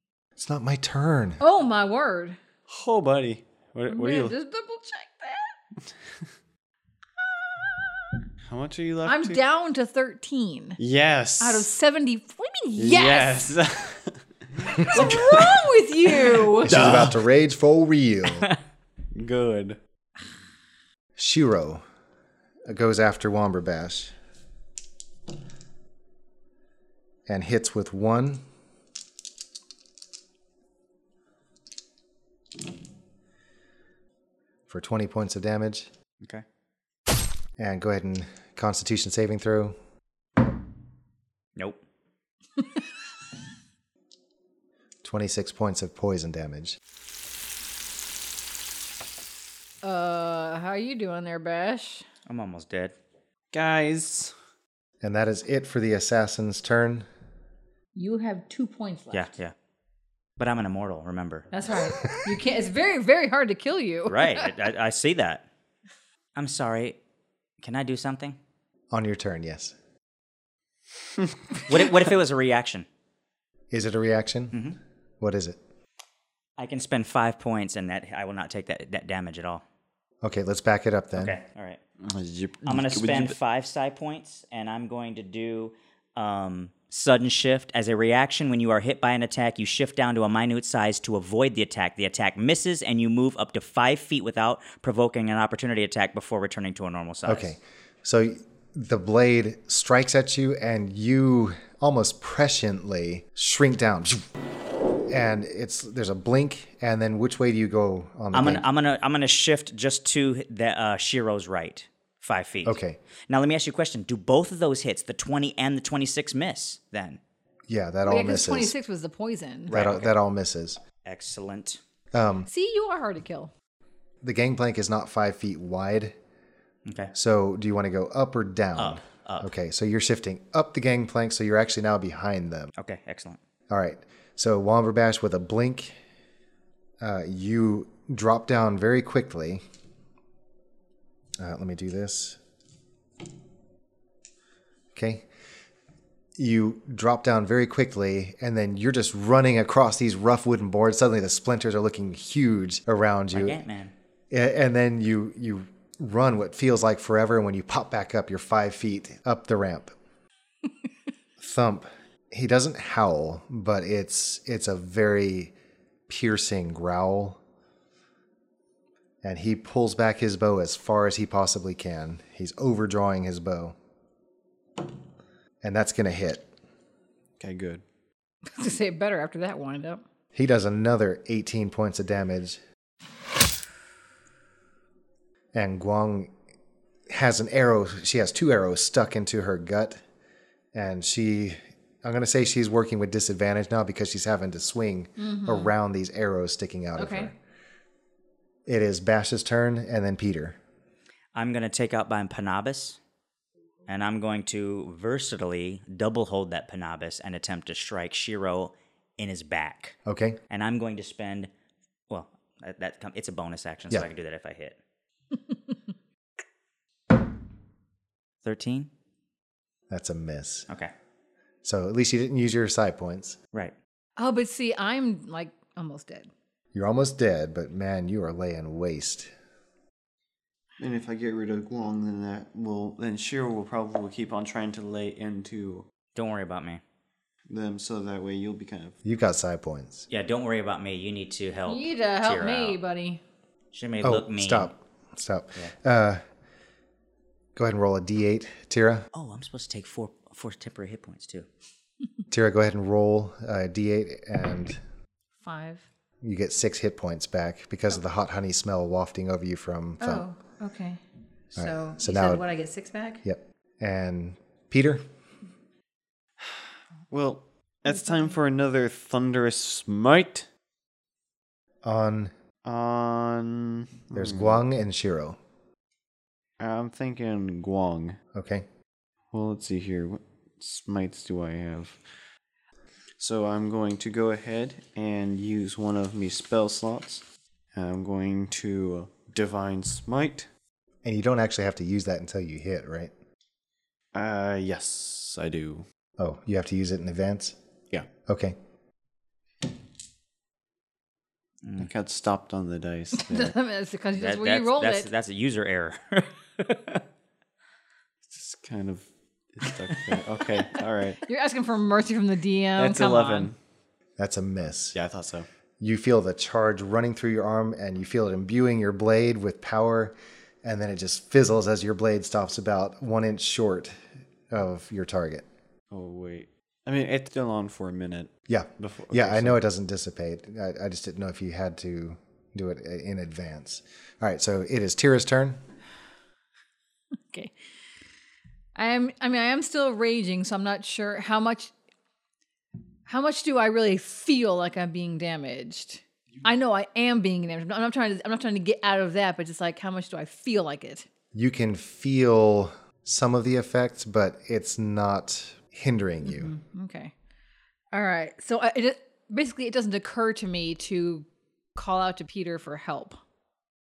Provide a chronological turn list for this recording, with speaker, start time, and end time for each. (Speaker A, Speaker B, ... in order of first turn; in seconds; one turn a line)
Speaker A: 0.4-1.4
Speaker B: 1.4-2.4
Speaker C: 2.7-4.3
Speaker B: 3.9-5.6
Speaker B: 7.3-8.2
Speaker C: 8.5-9.4
Speaker B: 9.1-10.8
Speaker C: 10.8-11.7
Speaker B: 11.4-13.4
Speaker C: 12.8-15.6
Speaker B: 14.7-16.9
Speaker C: 16.2-17.2
Speaker A: 16.6-18.5
Speaker C: 19.1-19.8
Speaker A: 21.2-21.8
Speaker A: 22.7-24.1
Speaker A: 27.3-28.4
Speaker A: 34.7-35.9
Speaker A: 37.6-39.8
Speaker D: 41.6-41.8
Speaker A: 45.0-46.8
Speaker B: 49.8-52.0
Speaker D: 52.3-52.9
Speaker C: 53.5-54.3
Speaker A: 55.0-57.1
Speaker B: 58.0-59.3
Speaker D: 59.1-59.5
Speaker D: 60.4-61.5
Speaker B: 61.5-64.5
Speaker D: 64.1-65.4
Speaker D: 66.4-67.0
Speaker D: 67.6-68.4
Speaker A: 68.9-69.8
Speaker D: 71.7-72.9
Speaker A: 73.7-74.5
Speaker D: 74.5-74.8
Speaker A: 75.2-75.6
Speaker D: 76.6-79.6
Speaker A: 80.2-81.4
Speaker D: 81.2-81.8
Speaker C: 82.0-83.3
Speaker D: 82.7-97.5
Speaker A: 97.3-104.2
Speaker A: 105.1-108.7
Speaker D: 108.3-117.2
Speaker A: 112.7-113.0
Speaker A: 117.7-118.7
Speaker B: 118.1-119.8
Speaker D: 119.7-120.1
Speaker A: 119.7-120.8
Speaker D: 121.0-121.8
Speaker A: 122.1-122.5
Speaker B: 122.5-123.5
Speaker A: 124.2-126.2
Speaker D: 126.9-127.1
Speaker A: 127.1-132.7
Speaker D: 128.8-129.5
Speaker D: 132.8-133.4
Speaker A: 133.7-136.0
Speaker A: 137.0-139.6
Speaker A: 141.4-142.4
Speaker A: 144.9-145.3
Speaker A: 146.4-153.6
Speaker D: 153.3-153.9
Speaker A: 154.3-159.9
Speaker A: 161.4-165.5
Speaker A: 166.1-167.4
Speaker A: 169.2-173.8
Speaker A: 175.6-176.5
Speaker C: 177.4-177.8
Speaker B: 178.6-180.0
Speaker A: 180.3-182.6
Speaker A: 185.5-186.3
Speaker A: 187.1-190.0
Speaker A: 190.7-197.4
Speaker B: 195.2-195.7
Speaker B: 197.0-197.3
Speaker A: 198.7-200.6
Speaker D: 201.3-203.0
Speaker D: 203.9-210.0
Speaker A: 210.1-210.4
Speaker D: 210.5-211.5
Speaker D: 212.1-214.8
Speaker D: 218.4-218.9
Speaker A: 219.9-220.7
Speaker A: 221.6-223.4
Speaker B: 224.2-226.3
Speaker A: 226.7-229.3
Speaker C: 230.8-235.9
Speaker D: 236.2-236.8
Speaker C: 237.5-238.9
Speaker A: 239.1-240.1
Speaker D: 240.1-242.8
Speaker B: 241.7-243.2
Speaker D: 243.7-244.7
Speaker A: 244.0-246.2
Speaker A: 247.6-249.1
Speaker D: 249.1-251.5
Speaker A: 252.3-254.8
Speaker B: 255.4-255.8
Speaker A: 256.2-260.3
Speaker B: 260.0-261.0
Speaker B: 261.6-263.2
Speaker A: 261.6-262.5
Speaker A: 263.2-265.0
Speaker C: 266.4-270.5
Speaker A: 271.8-272.3
Speaker C: 272.6-274.6
Speaker A: 274.1-275.4
Speaker C: 276.6-278.2
Speaker A: 278.3-278.7
Speaker C: 279.3-282.0
Speaker C: 283.2-290.5
Speaker A: 291.0-293.1
Speaker C: 294.1-295.9
Speaker A: 296.2-297.6
Speaker A: 298.3-298.6
Speaker D: 301.6-301.9
Speaker C: 301.8-303.6
Speaker B: 303.2-305.1
Speaker D: 304.2-307.0
Speaker C: 308.3-311.2
Speaker B: 311.2-313.5
Speaker C: 312.8-313.6
Speaker A: 314.2-315.0
Speaker C: 314.9-315.5
Speaker A: 315.8-324.0
Speaker A: 324.5-325.5
Speaker C: 325.9-329.6
Speaker A: 328.5-335.6
Speaker B: 338.8-341.7
Speaker B: 343.1-351.1
Speaker A: 351.3-356.5
Speaker B: 356.2-357.1
Speaker B: 357.9-363.2